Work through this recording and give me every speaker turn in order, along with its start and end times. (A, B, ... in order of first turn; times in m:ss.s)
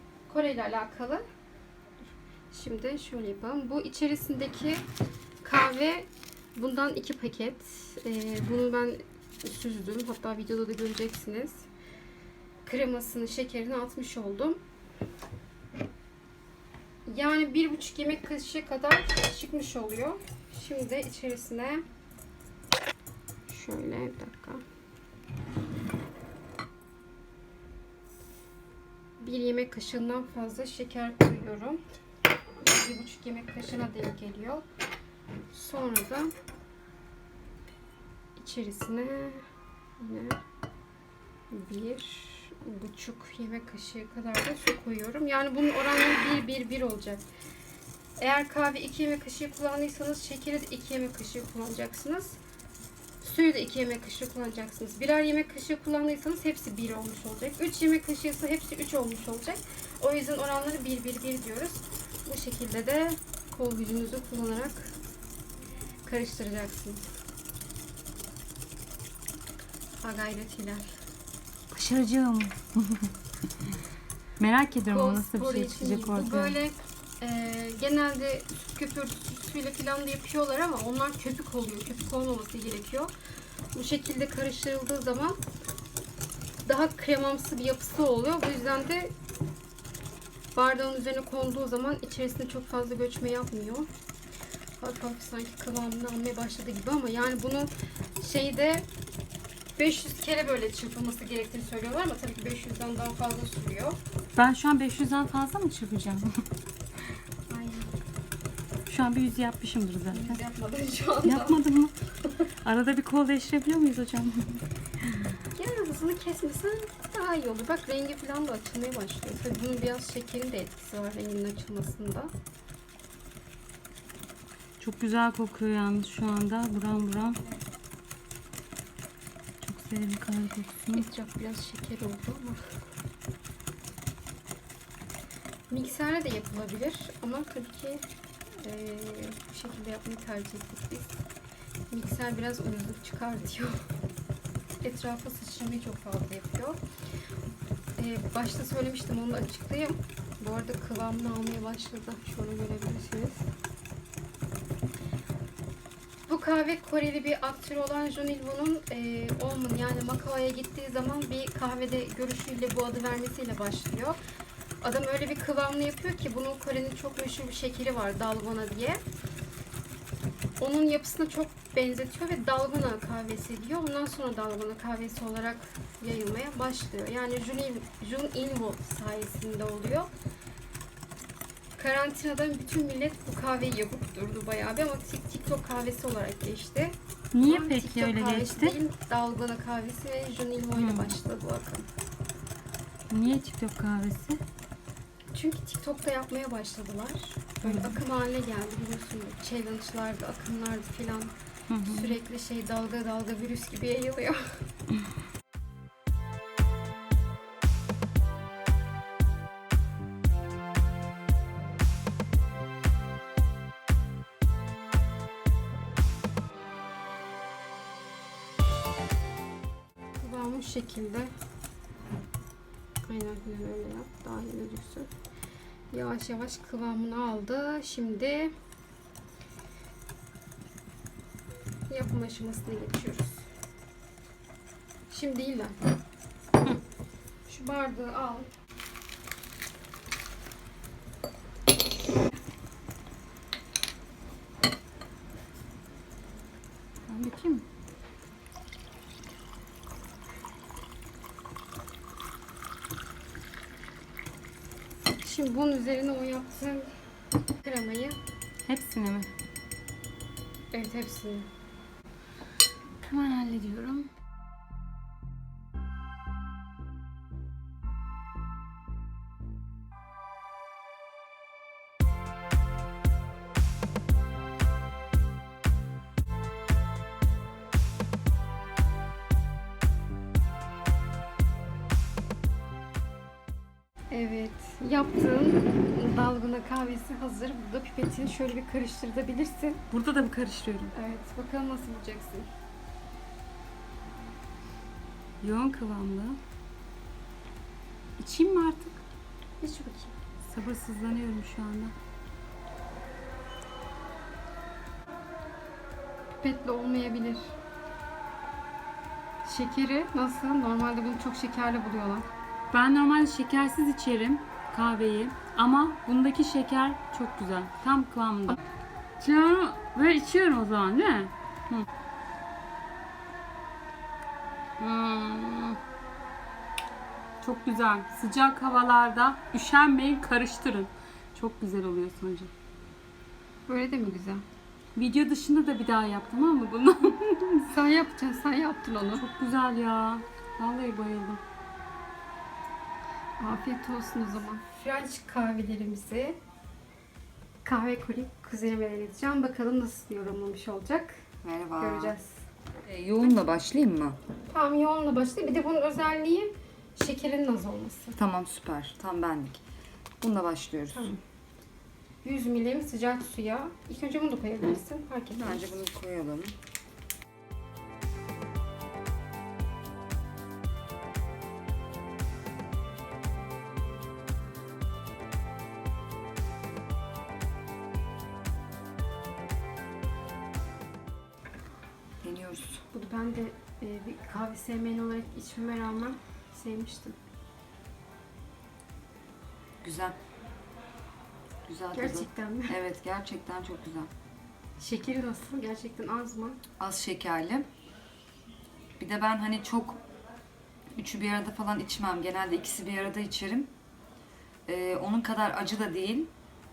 0:00.3-0:01.2 A
0:02.5-0:04.8 A
0:05.4-0:11.7 A
0:12.6-0:14.6 A
0:17.1-0:21.8 A
0:23.5-0:24.6 A
0:29.2-0:31.8 A
0:32.6-0:34.6 A
0:35.5-0:36.3 A
0:38.4-0:39.4 A
0:40.0-0:40.4 A
0:41.5-0:47.2 A
0:48.2-0:52.4 A
0:53.2-1:05.0 A
1:06.0-1:07.0 A
1:10.0-1:10.9 A
1:11.7-1:13.1 B
1:14.4-1:16.6 B
1:14.9-1:23.1 A
1:23.7-1:25.4 A
1:26.7-1:29.1 A
1:30.6-1:33.9 A
1:34.8-1:38.9 A
1:39.8-1:44.0 A
1:44.4-1:46.3 B
1:47.5-1:47.9 A
1:48.9-1:50.4 B
1:50.1-1:51.6 A
1:51.2-1:52.0 B
1:52.6-1:55.4 B
1:55.6-2:02.3 A
2:04.8-2:07.4 B
2:09.6-2:11.1 B
2:10.9-2:12.6 A
2:15.7-2:18.0 A
2:18.6-2:21.2 A
2:21.9-2:23.8 A
2:24.8-2:26.8 A
2:28.0-2:33.5 A
2:36.3-2:44.2 A
2:44.8-2:49.0 A
2:50.6-3:00.1 A
3:01.8-3:11.9 A
3:07.3-3:08.8 B
3:10.8-3:11.1 B
3:13.1-3:14.4 B
3:15.3-3:21.3 A
3:17.6-3:18.0 B
3:21.7-3:22.2 B
3:21.8-3:24.6 A
3:40.2-3:41.3 A
3:43.1-3:45.1 A
3:45.9-3:48.5 A
3:51.9-3:53.5 A
3:55.1-3:55.8 A
3:57.5-3:58.5 A
4:07.1-4:07.6 B
4:15.0-4:16.9 A
4:17.6-4:18.2 A
4:18.7-4:19.3 B
4:20.7-4:21.5 A
4:23.0-4:24.1 B
4:44.1-4:49.8 A
4:49.9-4:50.9 B
4:50.9-4:52.5 A
4:55.4-4:56.4 B
4:58.2-4:59.0 B
4:59.6-5:00.1 A
5:00.4-5:01.9 B
5:06.4-5:07.6 A
5:09.4-5:12.3 A
5:12.7-5:18.6 B
5:19.2-5:21.9 B
5:24.8-5:25.8 B
5:27.4-5:32.5 B
5:33.7-5:34.4 A
5:35.0-5:37.7 B
5:37.7-5:39.2 A
5:39.2-5:41.4 B
5:43.4-5:46.4 A
5:47.6-5:51.2 A
5:51.4-5:52.2 C
5:51.8-5:52.5 A
5:52.9-5:54.2 C
5:54.5-5:58.2 A
5:58.2-5:59.6 C
6:00.2-6:01.1 C
6:00.9-6:01.2 A
6:02.2-6:05.8 A
6:05.4-6:06.6 C
6:22.2-6:22.8 C
6:22.9-6:27.2 A
6:29.8-6:30.2 C
6:31.7-6:34.1 C
6:31.9-6:32.8 A
6:34.8-6:36.6 A
6:36.8-6:37.7 C
6:39.0-6:40.0 C
6:41.0-6:43.7 C
6:44.7-6:46.3 C